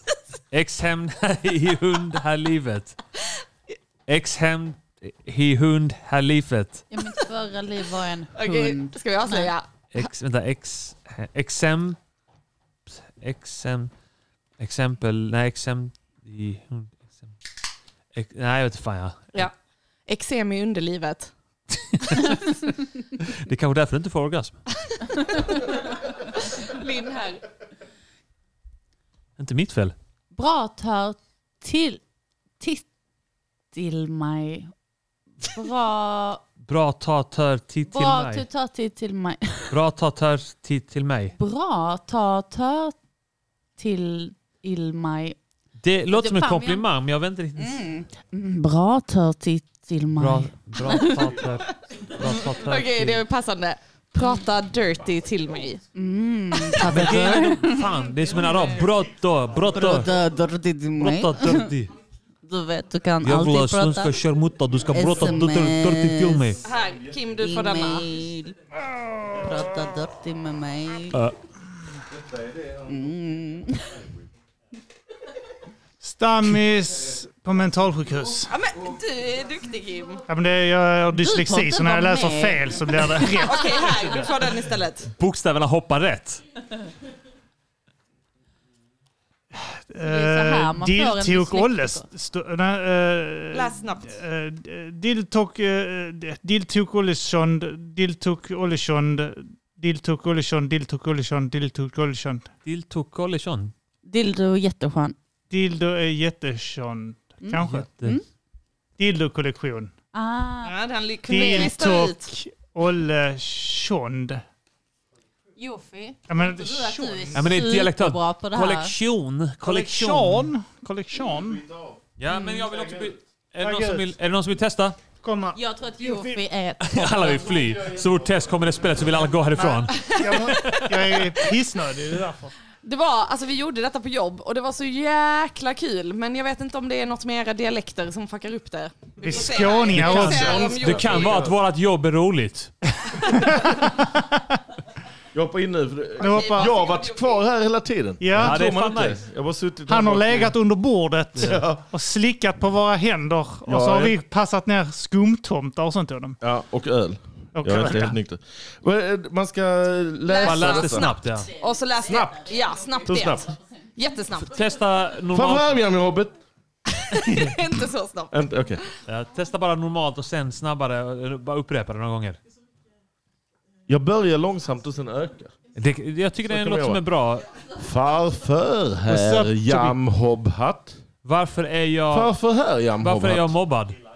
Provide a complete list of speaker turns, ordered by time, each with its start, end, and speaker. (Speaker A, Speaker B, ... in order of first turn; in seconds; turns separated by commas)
Speaker A: 0.5-3.0, Speaker A: 4.1-6.8, Speaker B: 6.9-9.5, Speaker C: 8.3-9.6, Speaker A: 9.9-12.0, Speaker A: 12.9-13.9, Speaker A: 14.6-17.3, Speaker A: 18.1-19.5, Speaker C: 20.1-21.3, Speaker A: 23.5-24.6, Speaker C: 26.6-27.4, Speaker A: 29.4-29.9, Speaker B: 30.3-32.0, Speaker B: 32.6-32.9, Speaker B: 33.7-34.7, Speaker B: 35.4-36.5, Speaker A: 36.6-38.5, Speaker B: 37.9-39.8, Speaker A: 39.7-41.4, Speaker B: 41.4-43.0, Speaker B: 43.8-45.4, Speaker A: 45.8-47.8, Speaker B: 46.1-46.9, Speaker B: 47.6-51.3, Speaker A: 50.2-51.6, Speaker A: 52.2-53.2, Speaker C: 52.3-55.8, Speaker B: 55.9-58.0, Speaker A: 56.8-60.1, Speaker C: 58.4-58.9, Speaker B: 59.7-61.7, Speaker A: 61.0-61.9, Speaker B: 62.4-64.2, Speaker A: 63.2-66.6, Speaker B: 64.9-66.5, Speaker C: 66.6-68.0, Speaker B: 67.4-68.6, Speaker B: 69.3-71.2, Speaker B: 72.9-74.0, Speaker D: 76.0-78.5, Speaker C: 78.5-80.2, Speaker D: 80.3-84.0, Speaker B: 81.1-83.3, Speaker C: 83.4-85.1, Speaker A: 85.2-86.4, Speaker D: 89.5-102.5, Speaker B: 90.0-92.1, Speaker C: 93.5-94.2, Speaker A: 102.7-103.7, Speaker B: 104.1-105.2, Speaker D: 105.5-107.9, Speaker B: 107.4-108.2, Speaker A: 107.6-108.2, Speaker D: 109.0-109.9, Speaker B: 110.1-110.8, Speaker C: 110.6-112.3, Speaker D: 111.3-114.4, Speaker B: 111.4-111.7, Speaker B: 115.6-119.0, Speaker D: 116.3-117.6, Speaker A: 117.3-120.5, Speaker D: 119.6-121.6, Speaker A: 122.2-125.0, Speaker D: 123.6-124.1, Speaker D: 125.2-126.4, Speaker B: 125.5-127.5, Speaker A: 126.8-131.3, Speaker D: 129.6-132.5, Speaker C: 129.9-130.4, Speaker C: 132.8-141.5, Speaker D: 139.2-140.8, Speaker A: 139.9-142.7, Speaker E: 140.1-141.6, Speaker D: 143.3-144.1, Speaker E: 145.3-150.5, Speaker C: 146.2-147.5, Speaker D: 146.2-146.7, Speaker D: 148.2-148.6, Speaker A: 148.3-149.2, Speaker D: 149.9-156.4, Speaker A: 151.3-151.6, Speaker E: 151.4-151.8, Speaker E: 153.7-154.1, Speaker E: 156.4-161.1, Speaker D: 157.6-158.2, Speaker C: 160.3-163.4, Speaker A: 160.4-161.5, Speaker B: 161.4-163.8, Speaker E: 162.0-162.4, Speaker E: 163.1-163.5, Speaker C: 164.0-164.5, Speaker A: 164.4-165.8, Speaker E: 165.3-166.4, Speaker C: 167.1-168.4, Speaker E: 168.3-168.8, Speaker A: 169.1-172.4, Speaker E: 173.9-175.6, Speaker A: 175.8-177.5, Speaker E: 176.4-177.0, Speaker E: 177.8-181.0, Speaker D: 179.1-179.9, Speaker A: 181.2-182.4, Speaker E: 182.1-183.6, Speaker A: 183.0-184.0